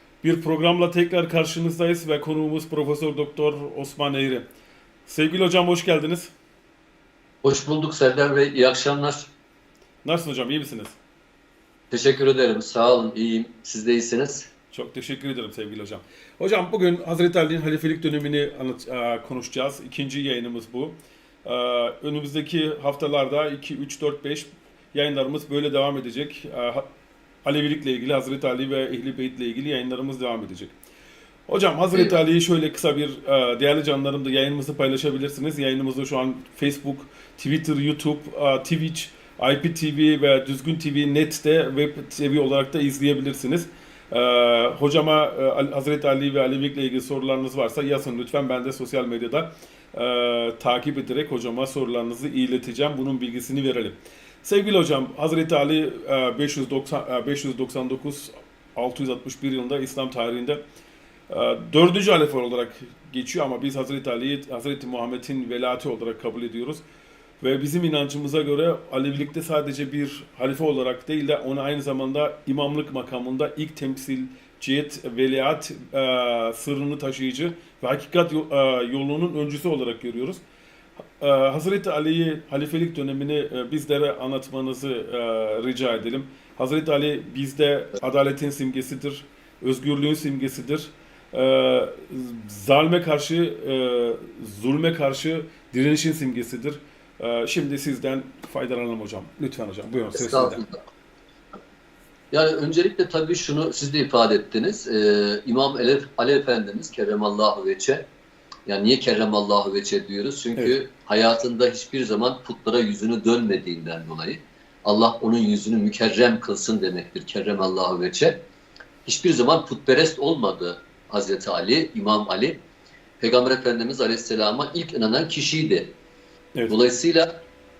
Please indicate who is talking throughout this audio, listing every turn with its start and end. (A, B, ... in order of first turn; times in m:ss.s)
0:00.2-0:04.4 A
0:05.0-0:06.3 A
0:07.4-0:09.3 B
0:10.0-0:11.0 A
0:11.9-0:14.5 B
0:14.7-0:26.9 A
0:27.4-0:30.7 A
0:31.5-1:00.6 A
1:01.3-1:06.8 A
1:07.4-1:20.4 A
1:21.2-1:40.6 A
1:40.1-1:40.8 B
1:42.3-1:48.0 B
1:48.7-1:58.4 B
1:59.0-2:02.6 B
2:03.2-2:05.9 B
2:06.7-2:07.4 B